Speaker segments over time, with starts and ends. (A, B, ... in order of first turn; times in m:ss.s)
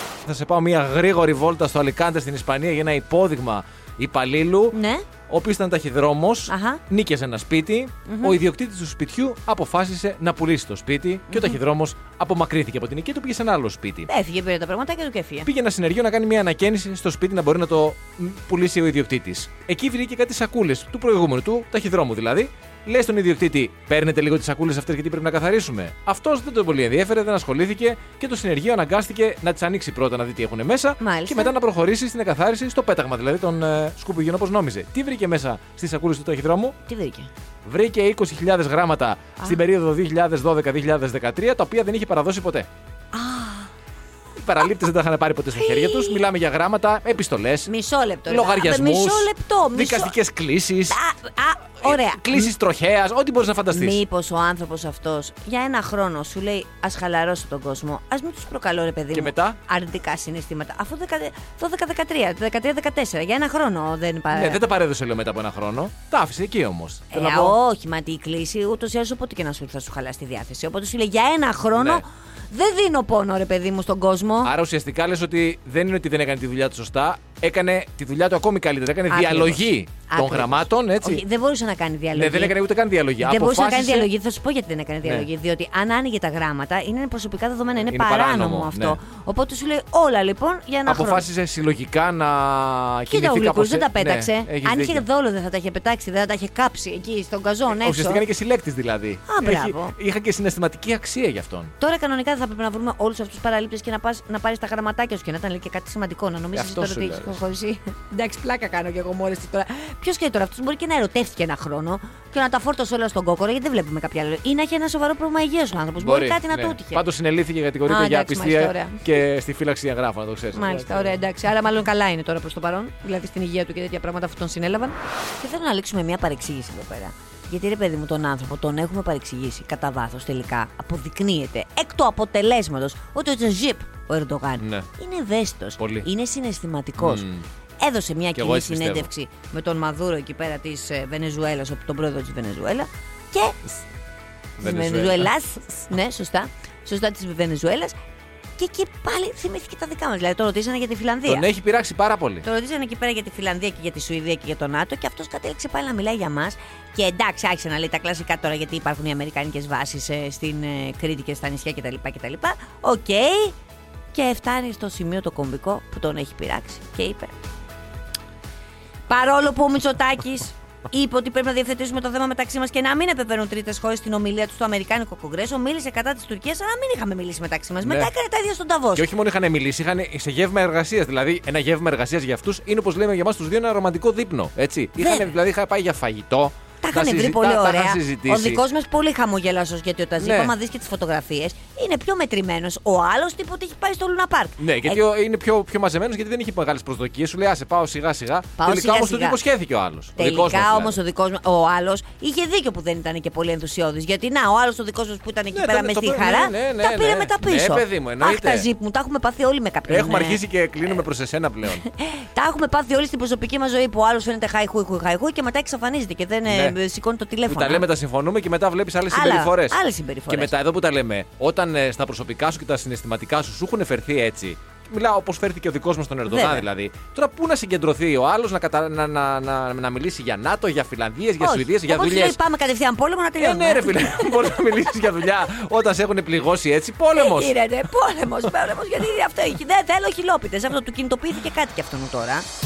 0:00.2-0:04.8 A
0:04.7-0:05.1 B
0:05.3-0:14.1 A
0:06.5-0:06.8 B
0:08.0-0:08.4 B
0:11.3-0:11.6 B
0:14.1-0:15.5 B
0:15.4-0:36.8 A
0:31.0-0:31.5 B
0:36.9-0:37.3 B
0:37.6-0:42.7 A
0:43.1-0:43.7 B
0:44.4-0:47.7 A
0:45.5-0:46.2 B
0:47.7-0:50.2 B
0:48.3-0:51.0 A
0:50.9-0:52.5 B
0:51.8-0:54.0 A
0:53.7-1:04.6 B
0:59.1-0:59.6 A
1:04.3-1:07.6 A
1:07.1-1:14.5 B
1:11.7-1:12.0 A
1:14.4-1:21.2 A
1:19.1-1:22.6 B
1:22.1-1:24.1 A
1:23.2-1:31.2 B
1:27.8-1:29.0 A
1:30.9-1:35.0 A
1:33.1-1:38.2 B
1:37.7-1:41.7 A
1:39.3-1:40.0 B
1:41.8-1:57.0 B
1:46.5-1:47.4 A
1:56.0-2:01.2 A
1:57.8-1:59.1 B
2:00.5-2:17.3 B
2:14.6-2:14.9 A
2:15.8-2:16.1 A
2:17.0-2:17.4 A
2:17.8-2:23.6 B
2:18.3-2:19.1 A
2:24.6-2:25.3 A
2:24.6-2:27.9 B
2:28.6-2:31.4 B
2:31.2-2:32.4 A
2:32.4-2:43.6 B
2:44.1-2:47.3 B
2:49.1-2:59.1 B
2:57.8-2:58.1 A
2:58.9-3:08.6 A
3:05.0-3:05.3 B
3:06.8-3:15.0 B
3:10.2-3:10.5 A
3:14.6-3:21.0 A
3:18.6-3:19.4 B
3:20.2-3:30.4 B
3:25.5-3:28.7 A
3:29.9-3:31.9 A
3:31.8-3:37.8 B
3:36.5-3:36.8 A
3:37.4-3:52.4 A
3:39.1-3:40.5 B
3:46.3-3:46.6 B
3:51.4-3:54.3 B
3:53.4-3:57.5 A
3:57.1-4:02.4 B